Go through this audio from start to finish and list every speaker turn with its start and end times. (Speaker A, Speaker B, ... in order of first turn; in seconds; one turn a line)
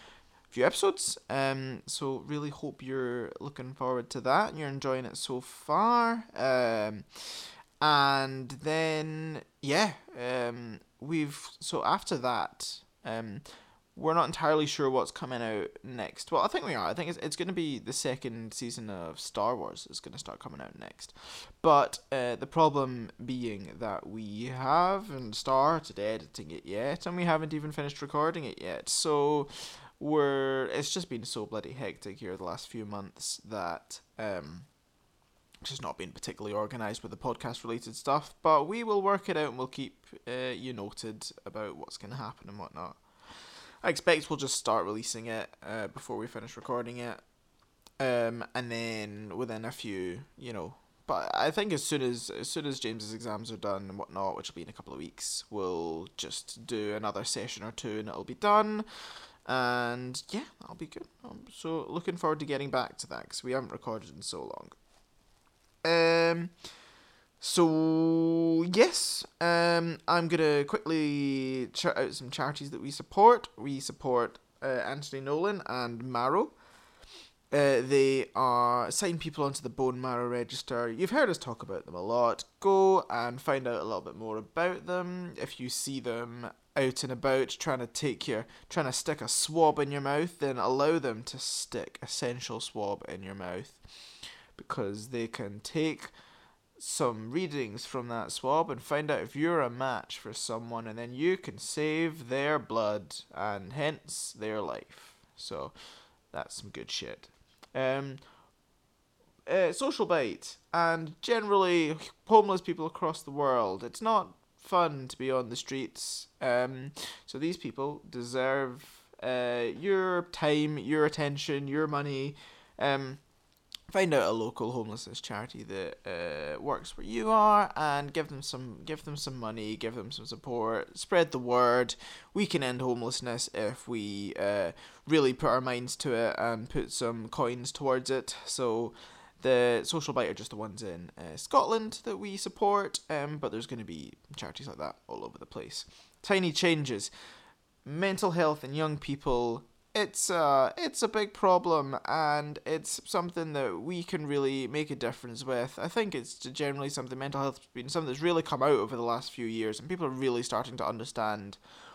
Speaker A: 0.5-34.7
Speaker A: 35.6-47.2
Speaker A: 48.0-58.9
Speaker A: 59.4-64.7
Speaker A: 65.8-66.6
Speaker A: 67.4-76.5
Speaker A: 77.5-93.8
Speaker A: 94.5-96.1
Speaker A: 96.8-108.3
Speaker A: 109.5-123.2
Speaker A: 123.9-147.1
Speaker A: 147.8-161.6